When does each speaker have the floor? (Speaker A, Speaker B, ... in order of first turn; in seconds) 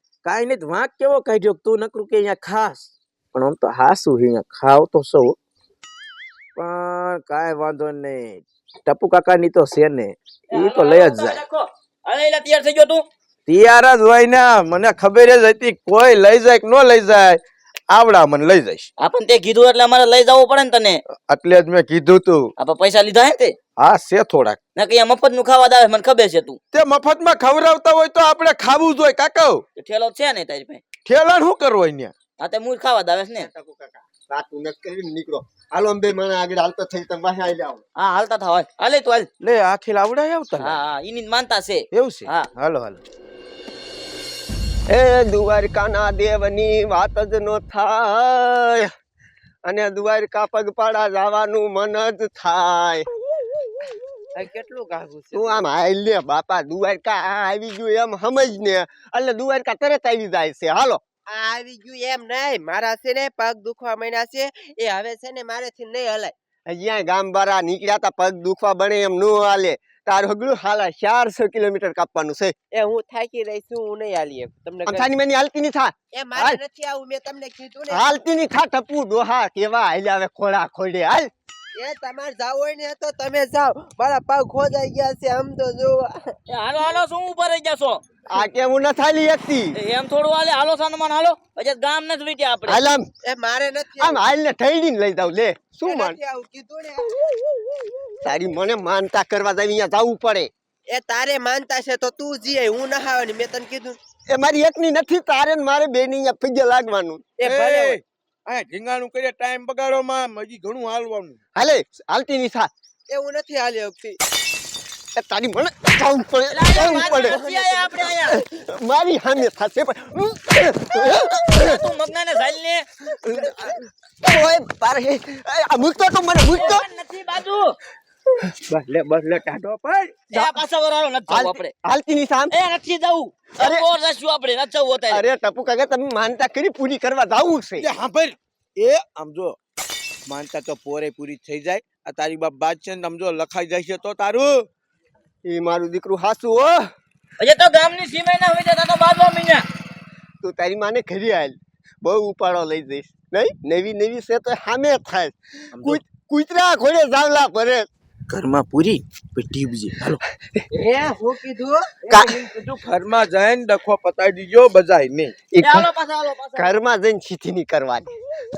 Speaker A: 0.2-5.4, 6.6-11.4, 13.5-18.9, 21.3-22.5, 23.8-24.6, 26.7-29.6, 31.1-32.1, 39.4-40.8, 41.9-43.0, 107.4-111.4, 128.7-130.2, 137.8-139.6, 140.3-144.7, 155.8-156.0, 158.3-160.2, 162.2-165.3
Speaker B: 10.5-13.0, 19.0-21.0, 22.6-23.5, 24.8-26.6, 29.8-30.8, 32.4-33.5, 38.0-39.3, 40.6-42.5, 86.5-88.0, 89.7-92.8, 116.5-118.3, 121.4-122.8, 126.5-127.8, 130.3-131.7, 132.5-135.2, 147.4-149.6, 165.6-166.7
Speaker C: 33.4-37.8, 44.9-48.9, 49.6-53.0, 55.3-61.0, 66.7-72.5, 74.9-76.6, 77.9-81.3, 88.3-89.7, 92.7-93.1, 94.0-96.2, 98.2-100.5, 104.3-107.2, 111.5-112.7, 115.2-117.4, 118.3-121.8, 123.2-126.8, 130.3-130.6, 131.3-132.5, 133.6-133.8, 135.1-137.9, 145.4-146.8, 150.4-157.9, 162.1-162.4, 165.5-165.9, 166.6-168.1
Speaker D: 54.3-55.6, 61.3-66.3, 72.7-75.1, 76.1-78.0, 81.8-86.1, 93.2-94.2, 95.8-97.2, 100.9-104.0, 107.4-108.0, 113.1-114.2, 117.0-118.0, 160.7-162.2